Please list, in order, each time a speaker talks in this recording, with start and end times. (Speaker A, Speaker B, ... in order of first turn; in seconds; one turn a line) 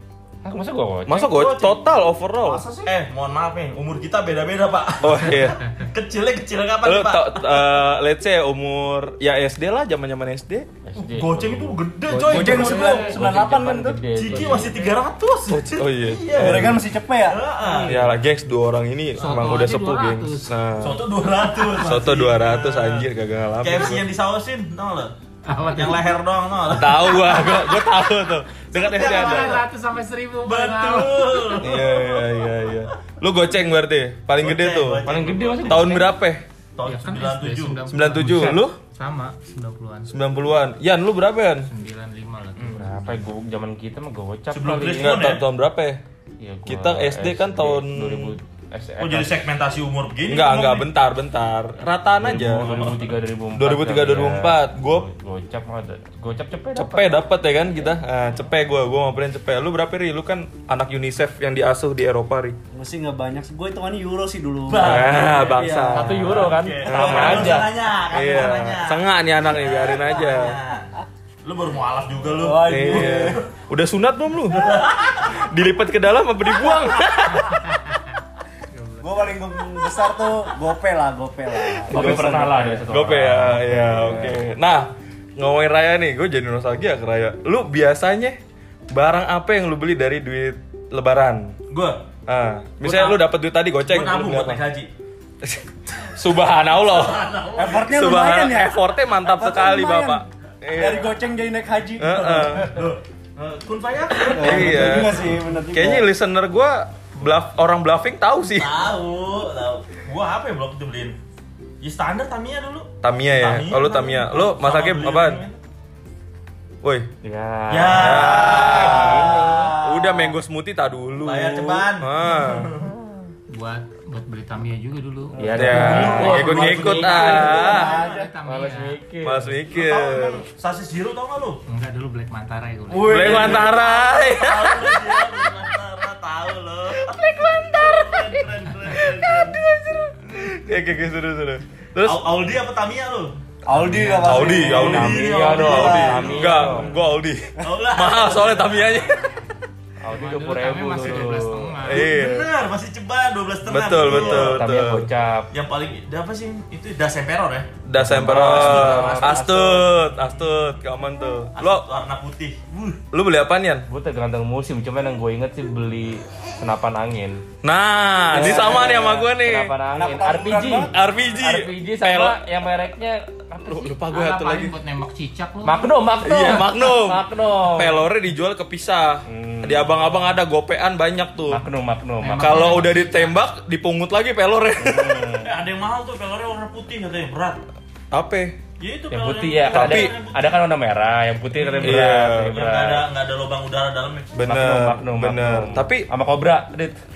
Speaker A: 0.4-1.3
Speaker B: 1.1-2.6
Speaker C: 1.2-1.8
Speaker D: 2.4-2.9
Speaker C: 2.8-7.6
Speaker B: 5.0-5.6
Speaker B: 6.8-10.7
Speaker A: 10.8-11.8
Speaker C: 10.9-13.0
Speaker E: 12.1-13.2
Speaker D: 12.2-14.6
Speaker A: 12.3-14.8
Speaker C: 14.1-18.0
Speaker B: 15.5-16.8
Speaker D: 16.3-17.4
Speaker A: 17.7-18.0
Speaker B: 17.9-21.0
Speaker E: 19.2-20.5
Speaker C: 20.8-23.1
Speaker B: 21.7-24.0
Speaker C: 23.6-25.1
Speaker E: 25.4-26.1
Speaker C: 25.7-27.6
Speaker B: 26.7-29.6
Speaker C: 28.7-29.6
Speaker E: 28.8-31.5
Speaker C: 30.4-32.3
Speaker B: 31.6-36.4
Speaker C: 34.4-36.0
Speaker A: 35.0-36.1
Speaker C: 36.8-37.8
Speaker E: 36.8-40.1
Speaker B: 37.9-38.8
Speaker B: 40.1-41.7
Speaker E: 41.6-43.1
Speaker A: 42.6-45.1
Speaker C: 44.5-45.4
Speaker B: 45.0-46.0
Speaker A: 46.4-49.4
Speaker B: 46.7-48.3
Speaker C: 49.0-50.9
Speaker B: 50.3-52.9
Speaker A: 52.2-57.2
Speaker C: 52.3-53.1
Speaker B: 53.5-55.1
Speaker B: 56.7-62.6
Speaker D: 62.7-65.9
Speaker C: 64.7-70.9
Speaker B: 64.8-70.6
Speaker A: 65.9-67.7
Speaker C: 71.4-73.5
Speaker D: 72.3-73.4
Speaker B: 72.6-74.7
Speaker C: 74.5-75.4
Speaker B: 75.2-77.6
Speaker E: 78.7-79.1
Speaker D: 79.0-82.6
Speaker A: 81.9-84.4
Speaker B: 81.9-88.4
Speaker B: 88.9-91.5
Speaker C: 91.7-92.0
Speaker B: 92.3-94.6
Speaker C: 92.8-93.2
Speaker C: 93.9-94.9
Speaker B: 95.4-101.1
Speaker C: 96.7-97.9
Speaker D: 97.5-100.2
Speaker D: 100.7-102.9
Speaker B: 102.0-102.7
Speaker C: 102.2-105.2
Speaker D: 104.2-106.1
Speaker B: 104.4-108.8
Speaker C: 108.5-111.2
Speaker C: 111.8-115.6
Speaker B: 113.0-115.4
Speaker B: 116.8-117.1
Speaker A: 117.2-119.8
Speaker C: 117.7-120.3
Speaker B: 117.9-122.7
Speaker C: 121.2-122.9
Speaker E: 123.5-129.0
Speaker A: 125.4-126.8
Speaker D: 125.4-128.3
Speaker B: 125.5-127.9
Speaker C: 125.8-128.3
Speaker A: 128.4-129.5
Speaker B: 129.2-130.4
Speaker C: 129.7-131.6
Speaker E: 131.7-133.5
Speaker C: 132.9-139.6
Speaker B: 133.0-135.0
Speaker B: 137.1-138.0
Speaker B: 139.0-142.2
Speaker C: 142.0-143.3
Speaker D: 143.7-146.4
Speaker A: 143.9-146.9
Speaker B: 144.2-149.3
Speaker C: 144.3-146.9
Speaker C: 147.6-149.1
Speaker A: 150.0-151.8
Speaker E: 150.1-152.1
Speaker B: 151.8-152.5
Speaker C: 151.9-154.6
Speaker B: 153.7-155.1
Speaker A: 154.0-155.5
Speaker C: 155.5-159.8
Speaker B: 157.8-161.8
Speaker A: 158.0-159.6
Speaker C: 161.6-163.0
Speaker B: 163.1-163.9
Speaker A: 163.9-167.4
Speaker B: 167.6-169.7
Speaker A: 168.3-174.0
Speaker D: 168.3-169.1
Speaker D: 169.9-170.9
Speaker B: 170.9-172.4
Speaker B: 173.6-174.8
Speaker E: 174.1-175.9
Speaker A: 175.6-178.0
Speaker B: 176.2-181.7
Speaker A: 179.3-180.1
Speaker A: 181.5-182.9
Speaker E: 182.2-183.3
Speaker B: 182.3-185.5
Speaker A: 184.8-185.5
Speaker C: 185.4-187.6
Speaker B: 188.1-188.6
Speaker C: 188.8-190.6
Speaker A: 189.1-193.1
Speaker B: 189.7-190.1
Speaker C: 191.5-194.3
Speaker B: 191.8-192.6
Speaker B: 194.3-196.1
Speaker A: 194.4-197.0